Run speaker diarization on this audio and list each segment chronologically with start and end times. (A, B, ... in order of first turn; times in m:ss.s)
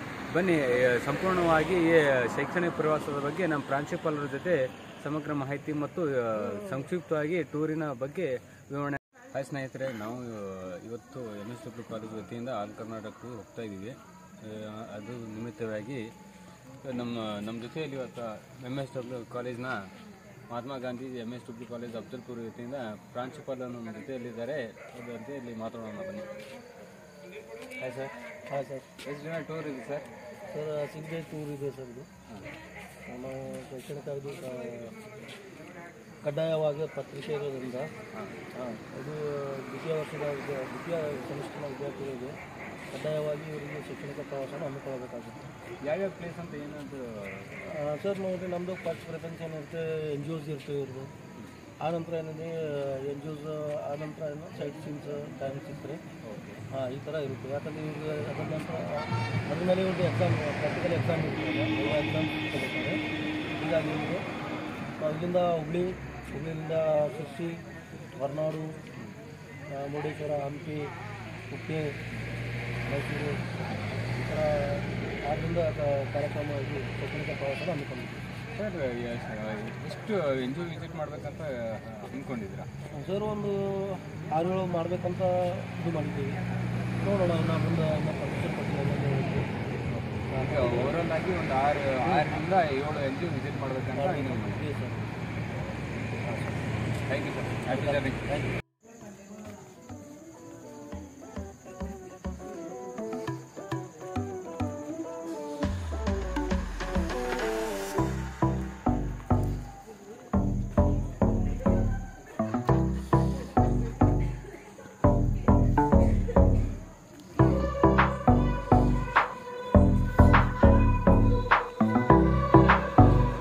0:00.3-0:16.1 A
0:16.8-0:19.9 A
0:20.5-0:26.3 A
0:27.8-0:28.1 A
0:28.5-0:28.9 B
0:29.0-0:30.0 A
0:30.5-0:32.1 B
0:33.1-0:35.0 B
0:36.2-0:37.9 B
0:38.1-0:38.4 A
0:38.5-0:42.4 B
0:42.9-0:45.5 B
0:45.8-0:47.5 A
0:47.6-0:51.1 B
0:51.8-0:56.0 B
0:56.2-0:56.6 A
0:56.7-1:03.0 B
1:03.6-1:04.2 B
1:05.0-1:07.6 B
1:08.2-1:08.7 B
1:09.7-1:10.9 B
1:11.5-1:12.0 B
1:12.8-1:13.4 B
1:14.1-1:18.2 B
1:18.5-1:22.7 A
1:23.0-1:26.4 B
1:27.0-1:29.5 B
1:30.2-1:34.6 A
1:30.3-1:31.1 B
1:32.0-1:32.3 B
1:33.9-1:35.1 B
1:37.0-1:38.4 A
1:37.7-1:38.4 B